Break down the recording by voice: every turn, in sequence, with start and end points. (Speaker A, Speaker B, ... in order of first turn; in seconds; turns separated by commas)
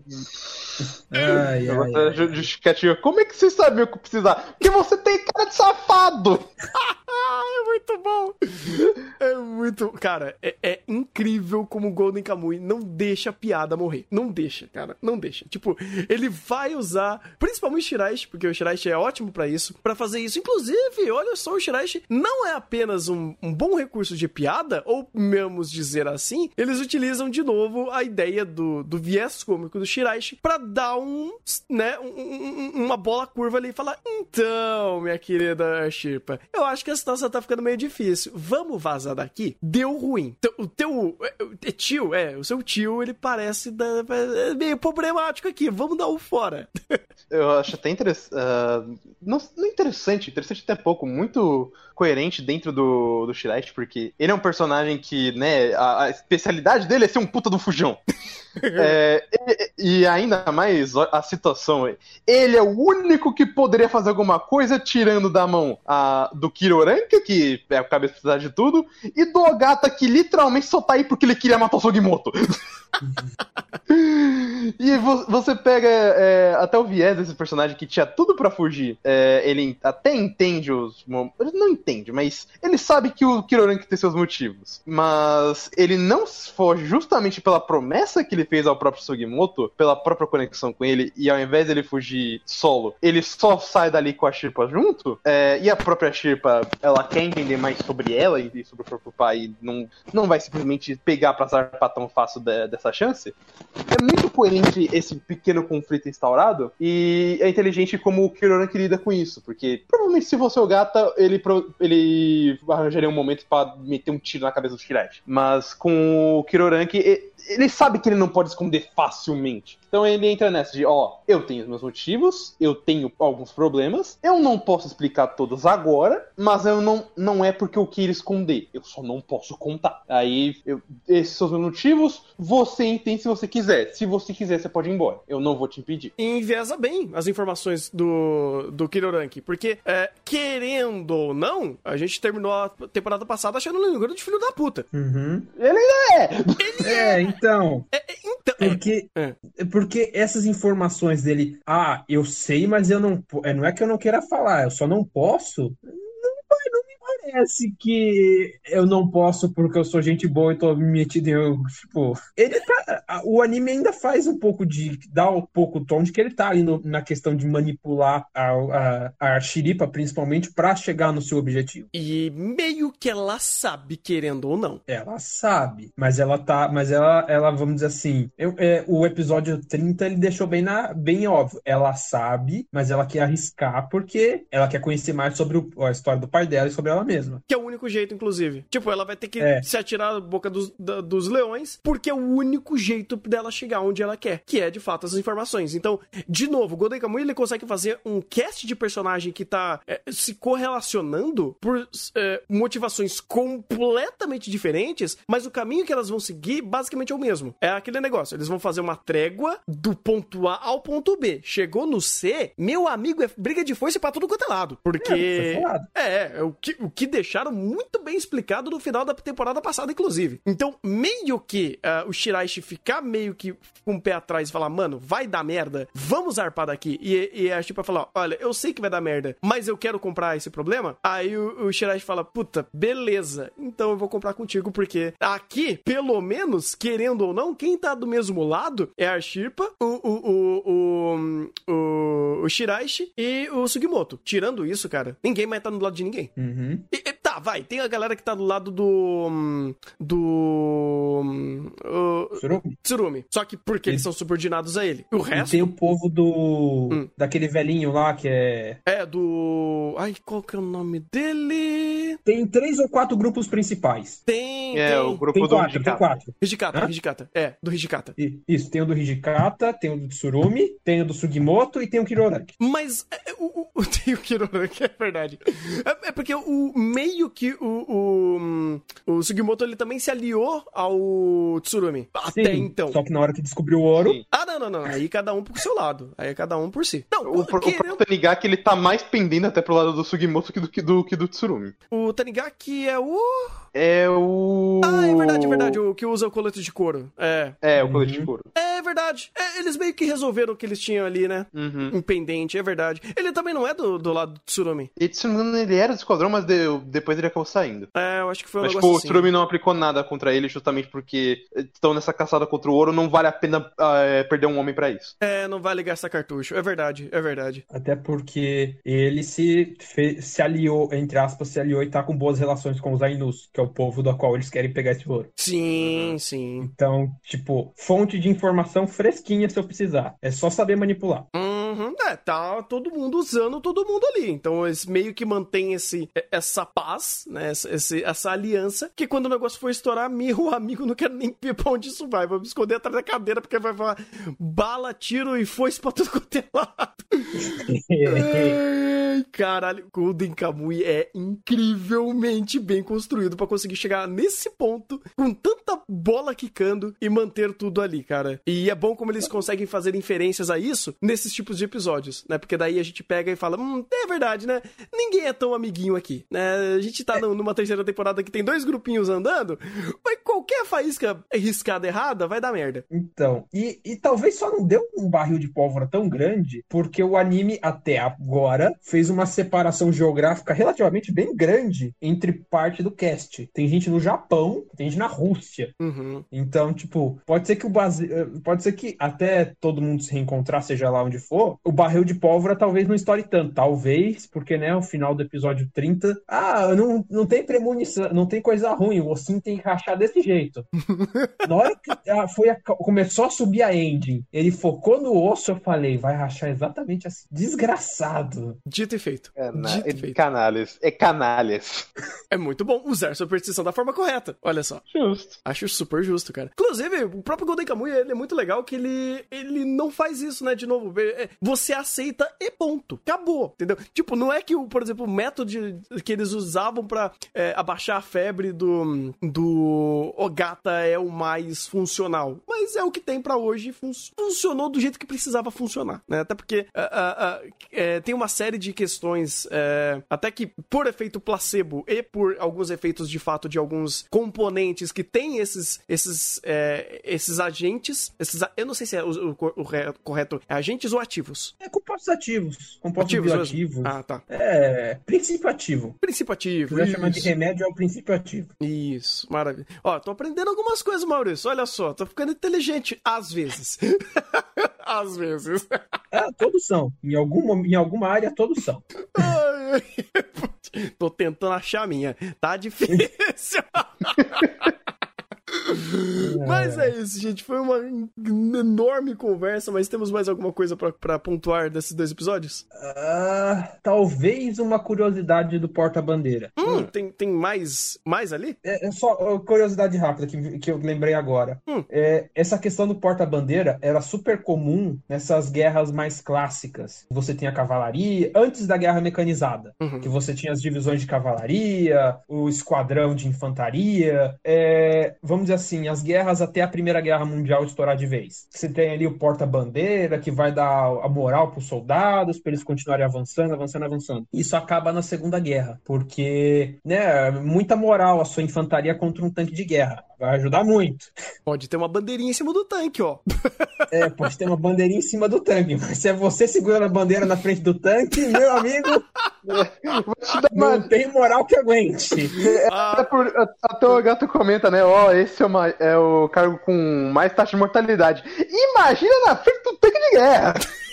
Speaker A: 1.1-2.5, Speaker B: 1.3-6.5, Speaker C: 6.7-47.0, Speaker B: 47.3-58.0, Speaker C: 58.6-59.0, Speaker B: 58.7-72.6, Speaker B: 73.9-103.3, Speaker B: 103.9-136.1, Speaker C: 136.2-144.9, Speaker A: 144.9-145.5, Speaker B: 145.6-146.8, Speaker C: 146.6-147.3, Speaker A: 146.8-147.9, Speaker C: 147.9-149.4, Speaker A: 148.6-171.9, Speaker C: 171.9-174.8, Speaker A: 174.9-187.4, Speaker C: 187.5-246.3, Speaker A: 189.4-189.7, Speaker A: 215.0-215.9, Speaker A: 246.3-246.8, Speaker C: 246.9-255.7, Speaker A: 252.4-252.7, Speaker A: 255.3-258.8, Speaker C: 258.9-262.2, Speaker A: 262.2-264.2, Speaker C: 264.2-265.2, Speaker B: 264.7-266.0, Speaker A: 265.3-266.9, Speaker C: 266.4-268.1, Speaker A: 268.2-272.5, Speaker C: 272.6-283.0, Speaker A: 282.3-284.2, Speaker C: 284.3-288.0, Speaker B: 287.2-291.7, Speaker C: 291.9-293.6, Speaker B: 293.7-295.8, Speaker C: 294.8-297.6, Speaker B: 297.6-298.5, Speaker A: 297.8-298.3, Speaker C: 298.5-304.9, Speaker B: 301.5-301.9, Speaker B: 305.0-307.9, Speaker C: 307.9-309.3, Speaker B: 308.6-315.1, Speaker C: 315.2-317.6, Speaker A: 317.7-325.3, Speaker C: 325.4-326.7, Speaker B: 325.8-326.1, Speaker A: 326.6-331.3, Speaker C: 331.3-347.5, Speaker A: 347.4-348.6, Speaker C: 348.0-372.8, Speaker A: 372.9-385.7, Speaker C: 385.8-386.2, Speaker A: 386.3-400.7, Speaker C: 400.9-401.5, Speaker A: 401.4-408.6, Speaker C: 408.7-410.2, Speaker B: 409.4-411.9, Speaker C: 412.3-414.8, Speaker B: 414.9-415.4, Speaker C: 415.4-451.5, Speaker A: 451.6-456.0, Speaker C: 453.0-454.2, Speaker C: 456.0-457.3, Speaker A: 456.7-458.5, Speaker C: 458.6-466.0, Speaker A: 466.1-469.3, Speaker C: 469.1-474.7, Speaker C: 475.5-482.6, Speaker A: 476.2-476.9, Speaker A: 482.7-486.9, Speaker C: 486.6-488.6, Speaker A: 488.6-521.1, Speaker C: 499.8-500.1, Speaker C: 521.5-523.9, Speaker A: 523.9-529.0, Speaker B: 529.5-530.9, Speaker A: 530.5-532.6, Speaker B: 532.4-540.6, Speaker C: 532.7-533.1